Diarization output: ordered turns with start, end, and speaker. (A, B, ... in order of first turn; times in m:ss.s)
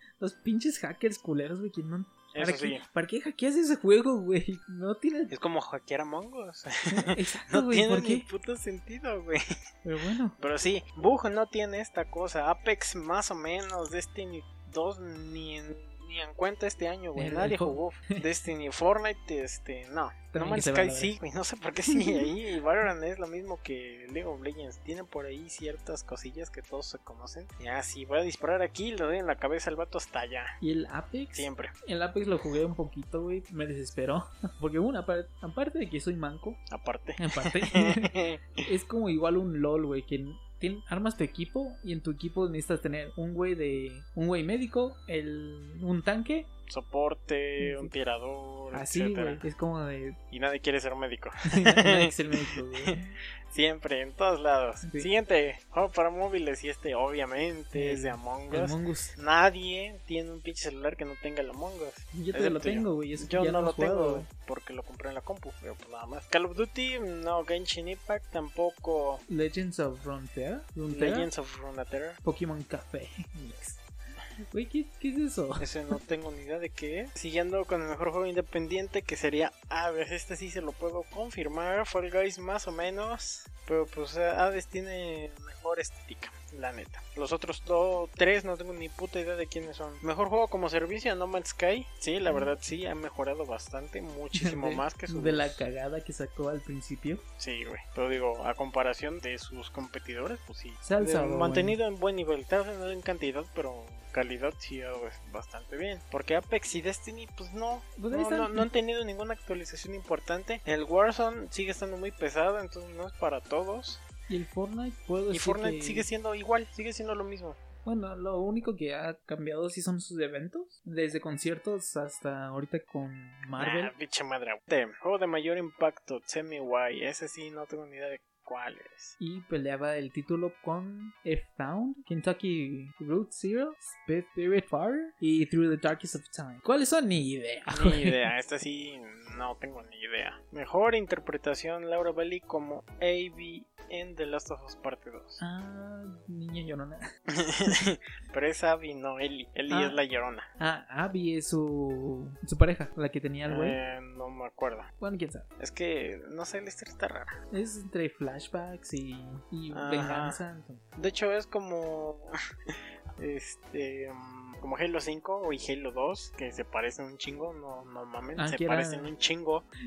0:00.2-0:05.3 A
0:02.3-0:02.8 B
0:05.3-0:09.4 B
0:06.9-0:08.2 A
0:09.8-0:10.4 A
0:10.4-0:30.6 B
0:17.2-0:18.2 A
0:20.3-0:21.1 A
0:21.9-0:22.3 A
0:30.6-0:36.6 A
0:31.3-0:31.7 B
0:36.7-0:38.7 B
0:37.2-0:46.5 A
0:46.7-0:49.4 B
0:47.6-0:47.9 A
0:48.7-0:50.2 A
0:50.3-0:53.0 B
0:51.5-0:53.1 A
0:53.5-1:09.2 B
0:57.7-0:59.1 A
1:02.1-1:04.3 A
1:09.3-1:11.3 A
1:10.9-1:12.2 B
1:12.2-1:13.8 A
1:14.5-1:16.0 A
1:15.6-1:35.6 B
1:32.2-1:32.5 A
1:34.3-1:37.2 A
1:37.4-1:54.0 B
1:40.8-1:41.8 A
1:48.0-1:48.7 A
1:54.3-1:56.1 A
1:55.3-1:57.6 B
1:57.8-2:03.9 A
2:03.6-2:09.2 B
2:09.2-2:18.2 A
2:17.7-2:25.4 B
2:25.4-2:27.1 A
2:27.3-2:30.5 B
2:29.7-2:30.0 A
2:30.6-2:33.8 A
2:33.5-2:34.9 B
2:35.0-2:35.5 A
2:35.6-2:37.3 B
2:37.5-2:40.8 A
2:39.7-2:40.4 B
2:41.0-2:49.6 B
2:48.4-2:49.1 A